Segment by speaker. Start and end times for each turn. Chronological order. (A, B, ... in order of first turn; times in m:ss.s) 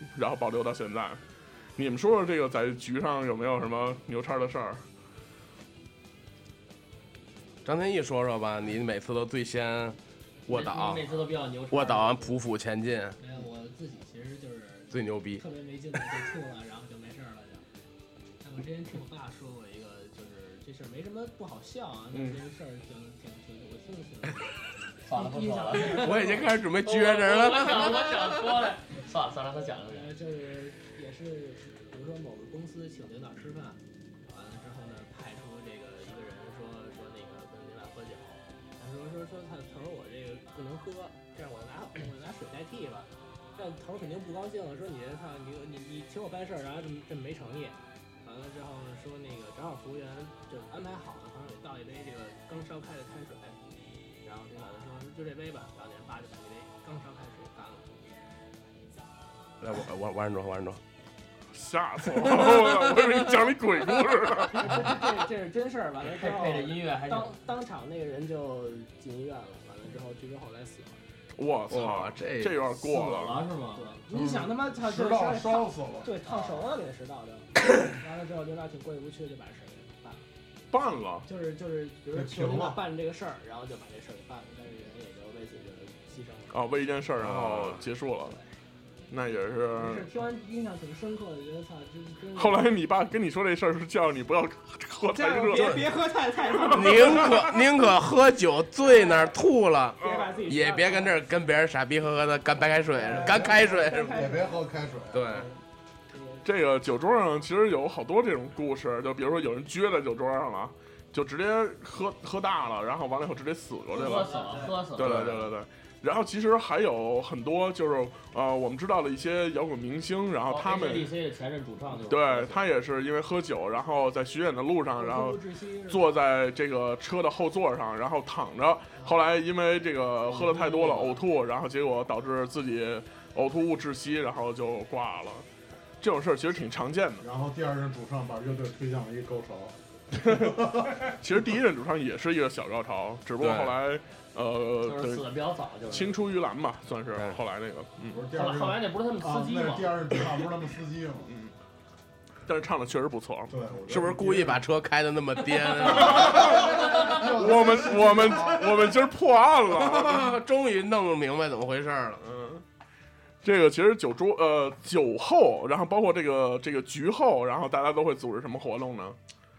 0:00.1-0:01.2 A
0:01.8-0:04.8 A
0:07.6-0:11.0 B
0:10.5-0:12.4 C
0:11.7-0:13.2 B
0:13.2-0:17.6 D
0:14.9-0:15.4 B
0:18.4-0:24.5 D
0:22.1-0:22.4 A
0:25.0-0:26.5 D
0:25.0-0:30.1 C
0:25.7-0:28.0 B
0:27.8-0:28.4 D
0:29.8-0:58.2 D
0:59.6-1:00.8 B
1:01.5-1:04.9 A
1:04.5-1:11.0 D
1:06.1-1:07.4 C
1:11.4-1:13.4 A
1:11.7-1:12.6 B
1:12.8-1:14.0 C
1:13.7-1:20.2 D
1:14.1-1:16.5 E
1:20.7-1:21.2 A
1:21.2-1:26.6 D
1:22.1-1:22.9 E
1:26.5-1:28.4 A
1:27.2-1:27.8 B
1:29.1-1:30.1 A
1:29.7-1:32.7 D
1:32.3-1:35.8 A
1:35.1-1:37.5 D
1:35.5-1:35.9 B
1:36.5-1:37.4 A
1:36.7-1:44.2 B
1:38.8-1:39.3 D
1:40.0-1:41.2 D
1:40.0-1:40.2 A
1:42.9-1:44.8 D
1:43.1-1:45.4 E
1:45.1-1:45.5 B
1:46.1-1:46.4 D
1:46.4-1:54.3 A
1:53.9-1:55.3 C
1:54.0-1:54.8 D
1:54.9-2:01.1 A
1:55.0-1:55.4 B
2:00.5-2:02.6 C
2:02.1-2:15.4 A
2:04.9-2:06.1 D
2:10.3-2:11.2 D
2:16.0-2:17.2 A
2:17.2-2:21.1 E
2:20.1-2:25.2 A
2:23.4-2:23.7 B
2:24.8-2:26.2 C
2:25.9-2:28.2 A
2:28.1-2:31.3 E
2:28.3-2:30.0 C
2:31.3-2:31.5 A
2:32.5-2:33.5 A
2:33.5-2:34.6 E
2:33.9-2:37.0 B
2:35.8-2:40.3 A
2:36.0-2:39.0 E
2:39.7-2:42.2 B
2:42.2-2:42.6 A
2:43.4-2:49.2 A